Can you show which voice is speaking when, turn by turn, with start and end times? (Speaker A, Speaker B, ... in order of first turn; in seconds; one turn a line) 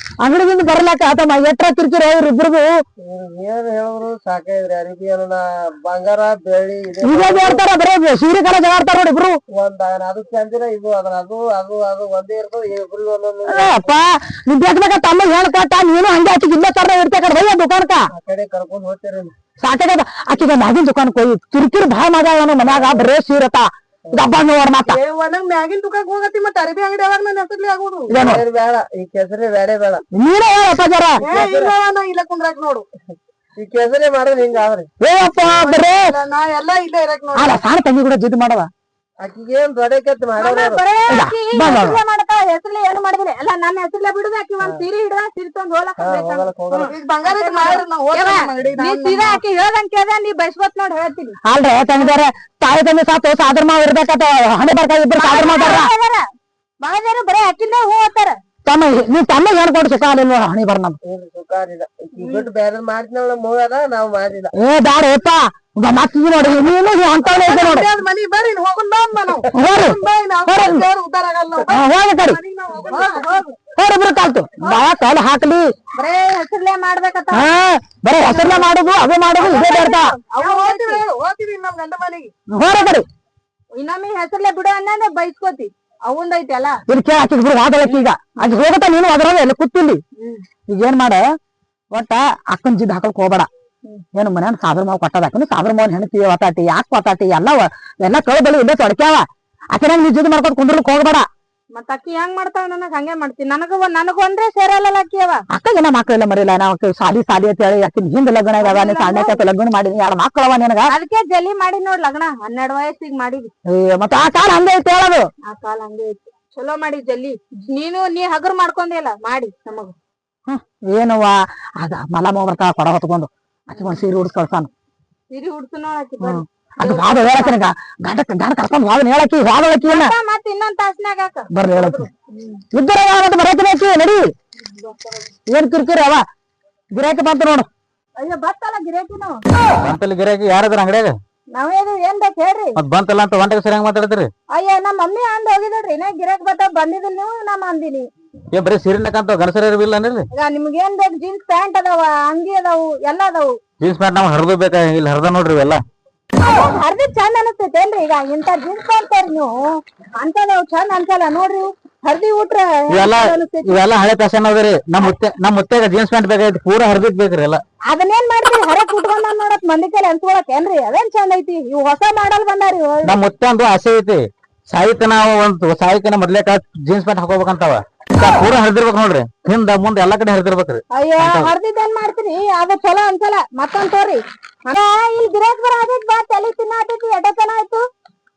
Speaker A: 0.2-2.7
Speaker B: 3.0-7.6
Speaker A: 7.0-9.4
Speaker B: 9.5-13.9
Speaker A: 13.5-18.1
Speaker B: 18.1-19.3
Speaker A: 19.6-25.0
Speaker C: 24.9-28.2
Speaker A: 28.1-28.4
Speaker B: 28.1-30.0
Speaker A: 30.1-31.2
Speaker C: 31.2-32.9
Speaker B: 31.2-31.7
Speaker B: 33.6-34.9
Speaker A: 35.0-36.1
Speaker C: 35.4-37.6
Speaker A: 37.4-38.7
Speaker B: 39.2-40.8
Speaker D: 40.4-46.6
Speaker A: 41.1-42.0
Speaker B: 46.0-46.9
Speaker C: 46.7-49.4
Speaker D: 47.2-51.4
Speaker A: 51.5-55.9
Speaker D: 55.2-56.2
Speaker D: 56.8-58.4
Speaker A: 58.7-61.0
Speaker B: 61.0-64.5
Speaker D: 62.2-62.5
Speaker A: 64.5-67.9
Speaker C: 67.3-73.3
Speaker A: 69.5-70.9
Speaker A: 71.7-72.4
Speaker D: 72.8-73.5
Speaker A: 73.8-75.7
Speaker D: 76.0-77.5
Speaker A: 77.3-80.2
Speaker D: 78.3-78.7
Speaker D: 79.4-81.0
Speaker C: 80.4-82.3
Speaker A: 82.5-83.1
Speaker D: 83.7-86.8
Speaker A: 86.9-90.0
Speaker A: 90.7-91.2
Speaker A: 91.9-93.5
Speaker A: 94.2-101.3
Speaker D: 101.8-105.4
Speaker A: 105.5-110.9
Speaker D: 108.6-109.4
Speaker D: 110.9-113.5
Speaker A: 113.7-115.3
Speaker D: 115.5-119.9
Speaker A: 120.5-124.7
Speaker D: 125.3-127.6
Speaker A: 126.2-130.1
Speaker D: 129.8-132.6
Speaker A: 131.5-132.1
Speaker A: 132.7-134.3
Speaker A: 135.5-136.2
Speaker A: 136.9-137.7
Speaker D: 138.2-139.4
Speaker E: 139.8-141.2
Speaker D: 141.5-142.8
Speaker E: 142.8-144.3
Speaker D: 144.5-148.1
Speaker E: 148.5-150.3
Speaker D: 150.3-153.6
Speaker E: 153.8-155.8
Speaker D: 156.4-163.8
Speaker E: 162.9-167.6
Speaker D: 167.9-173.2
Speaker E: 173.0-181.5
Speaker D: 180.9-187.8